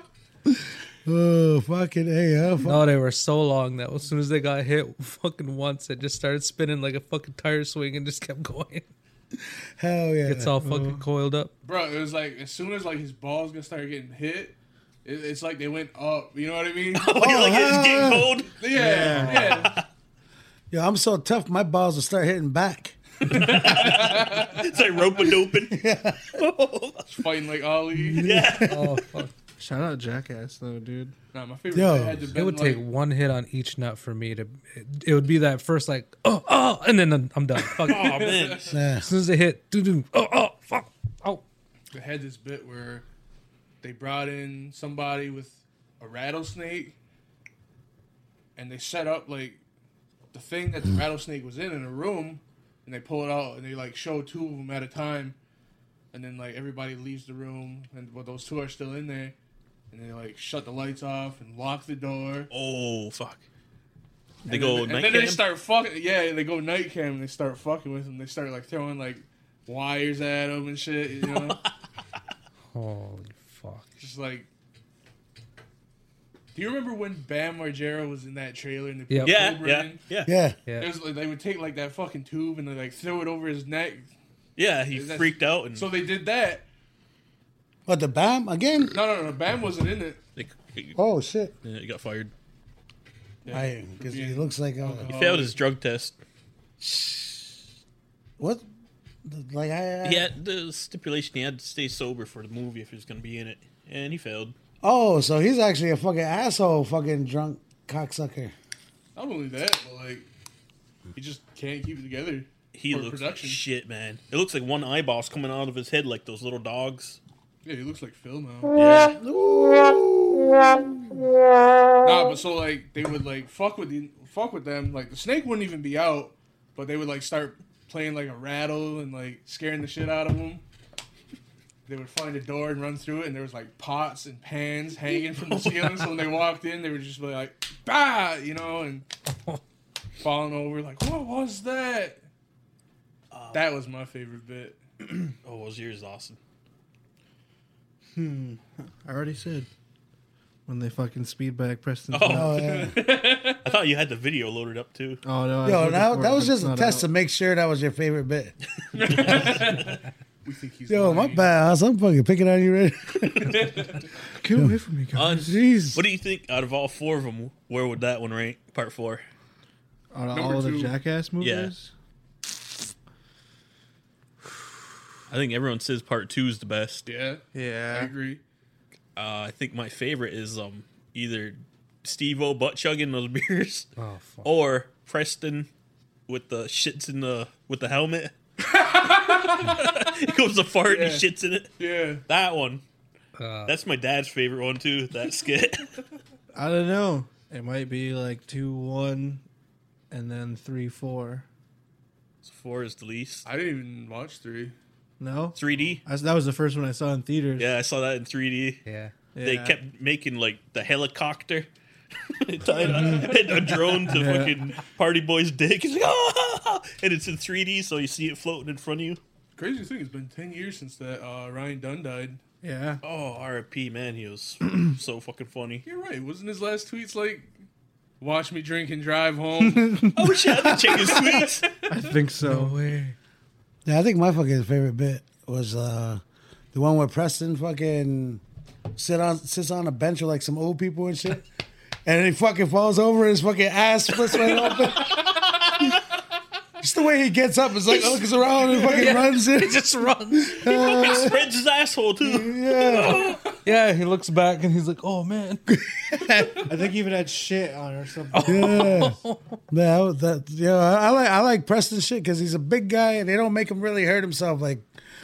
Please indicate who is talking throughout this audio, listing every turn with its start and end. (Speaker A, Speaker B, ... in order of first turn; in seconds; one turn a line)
Speaker A: 1.0-2.8
Speaker B: 2.6-8.9
Speaker A: 9.8-10.5
Speaker B: 10.2-11.5
Speaker C: 10.6-11.0
Speaker D: 11.6-17.1
Speaker E: 16.9-18.5
Speaker A: 17.1-18.4
Speaker D: 18.6-19.7
Speaker C: 18.7-19.7
Speaker A: 20.7-23.0
Speaker E: 23.3-25.8
Speaker D: 23.3-24.8
Speaker A: 25.7-26.4
Speaker E: 26.3-27.2
Speaker D: 27.1-28.3
Speaker A: 27.9-28.9
Speaker E: 28.2-28.7
Speaker B: 28.6-29.3
Speaker C: 29.6-31.1
Speaker D: 31.3-32.8
Speaker A: 31.7-32.3
Speaker B: 32.4-38.2
Speaker D: 37.9-38.7
Speaker E: 37.9-38.8
Speaker A: 38.7-39.1
Speaker B: 39.0-41.4
Speaker D: 41.9-43.0
Speaker D: 43.8-47.0
Speaker D: 48.5-49.6
Speaker D: 50.3-55.4
Speaker D: 56.1-59.4
Speaker D: 59.9-62.5
Speaker E: 62.5-63.4
Speaker E: 64.4-65.4
Speaker D: 64.5-71.6
Speaker B: 72.7-73.9
Speaker D: 74.0-74.5
Speaker D: 76.5-80.0
Speaker B: 79.1-79.4
Speaker E: 79.2-80.3
Speaker A: 80.2-80.6
Speaker B: 80.7-80.9
Speaker D: 80.8-84.1
Speaker E: 84.5-85.9
Speaker D: 84.9-86.7
Speaker A: 87.9-89.0
Speaker D: 88.9-90.2
Speaker E: 90.4-91.0
Speaker A: 91.0-91.5
Speaker E: 91.6-92.3
Speaker D: 93.4-95.6
Speaker A: 93.5-95.1
Speaker E: 95.1-96.2
Speaker A: 96.8-97.6
Speaker A: 98.4-98.6
Speaker A: 99.2-100.3
Speaker E: 100.0-104.5
Speaker A: 104.8-108.5
Speaker D: 109.2-110.3
Speaker D: 111.1-113.6
Speaker E: 112.7-117.2
Speaker D: 117.6-118.8
Speaker E: 118.8-119.2
Speaker A: 119.2-121.2
Speaker D: 122.0-130.6
Speaker D: 131.9-139.0
Speaker E: 135.3-136.3
Speaker D: 140.2-142.2
Speaker E: 143.3-143.7
Speaker D: 143.5-144.8
Speaker E: 145.4-146.4
Speaker C: 148.1-149.7
Speaker C: 150.7-152.7
Speaker E: 152.1-152.8
Speaker A: 152.2-152.9
Speaker D: 152.6-153.6
Speaker E: 153.5-155.2
Speaker C: 155.2-157.1
Speaker A: 155.6-158.5
Speaker D: 158.9-161.5
Speaker E: 159.1-159.8
Speaker A: 160.9-163.7
Speaker D: 163.5-164.0
Speaker C: 164.4-165.6
Speaker E: 165.1-169.2
Speaker A: 165.4-166.0
Speaker C: 170.1-171.9
Speaker D: 170.3-171.0
Speaker E: 171.4-171.7
Speaker E: 175.3-177.1
Speaker D: 177.1-178.4
Speaker C: 177.5-178.1
Speaker E: 179.2-183.9
Speaker B: 184.0-184.5
Speaker E: 184.4-185.7
Speaker E: 186.3-188.3
Speaker D: 188.7-189.9
Speaker E: 189.6-191.7
Speaker D: 190.8-191.2
Speaker D: 191.8-192.2
Speaker E: 192.3-192.8
Speaker B: 193.4-193.7
Speaker E: 193.7-195.9
Speaker C: 196.5-199.4
Speaker C: 200.1-201.4
Speaker E: 202.4-203.4
Speaker D: 203.4-204.8
Speaker C: 205.2-207.8
Speaker E: 205.5-206.0
Speaker E: 207.6-208.8
Speaker B: 208.8-209.1
Speaker C: 209.3-209.8
Speaker E: 209.4-211.7
Speaker E: 212.4-219.2
Speaker D: 212.7-213.3
Speaker C: 214.0-214.8
Speaker D: 219.6-222.4
Speaker C: 222.6-223.0
Speaker E: 223.0-225.8
Speaker D: 225.8-227.5
Speaker D: 228.2-230.1
Speaker C: 229.7-230.1
Speaker E: 230.1-231.7
Speaker D: 230.7-232.0
Speaker C: 231.9-232.8
Speaker B: 232.4-233.2
Speaker A: 233.8-236.2
Speaker A: 236.7-238.4
Speaker A: 238.9-241.4
Speaker A: 242.1-245.3
Speaker A: 246.8-251.4
Speaker B: 248.9-250.7
Speaker E: 250.6-253.4
Speaker A: 252.2-253.4
Speaker B: 253.6-255.6
Speaker A: 255.7-256.7
Speaker C: 256.6-259.1
Speaker B: 258.3-259.6
Speaker A: 258.5-259.2
Speaker A: 259.7-264.9